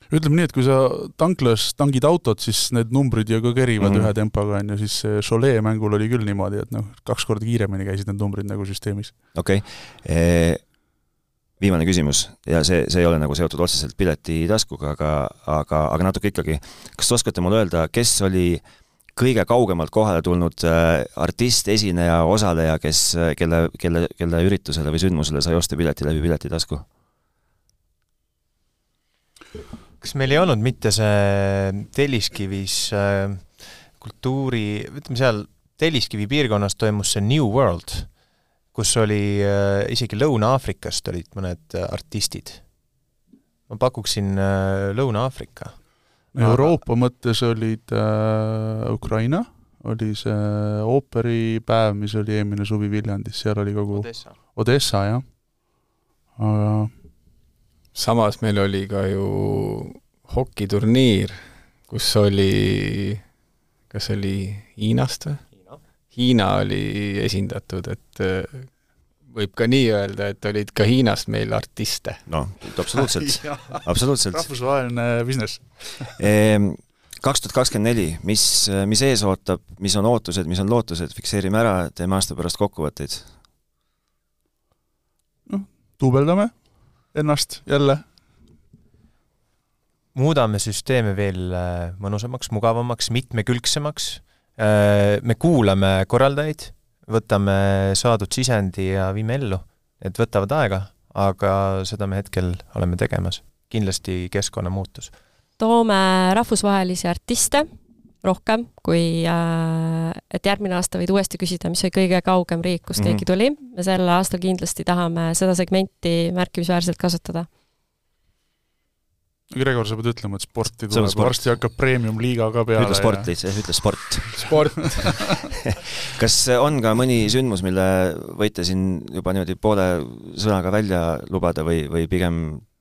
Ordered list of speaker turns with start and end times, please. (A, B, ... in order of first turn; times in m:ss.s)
0:00.1-0:09.2 A
0:03.8-0:04.1 B
0:09.3-0:10.6 B
0:11.6-0:18.6 B
0:19.2-0:26.9 B
0:30.0-0:38.2 C
0:38.7-0:42.7 C
0:43.7-0:46.8 C
0:46.3-0:55.4 A
0:53.9-0:54.4 C
0:56.4-0:57.0 A
0:57.9-1:03.2 D
1:03.9-1:05.5 D
1:05.6-1:05.8 C
1:06.1-1:08.7 D
1:09.3-1:12.2 D
1:12.3-1:14.5 B
1:12.9-1:16.2 A
1:16.2-1:23.3 B
1:25.5-1:28.1 A
1:30.1-1:45.1 C
1:45.6-1:47.7 E
1:48.2-1:57.5 E
1:53.0-1:53.2 B
1:59.5-2:03.3 A
2:00.9-2:01.6 B
2:02.8-2:05.2 B
2:04.4-2:05.1 D
2:06.0-2:12.6 B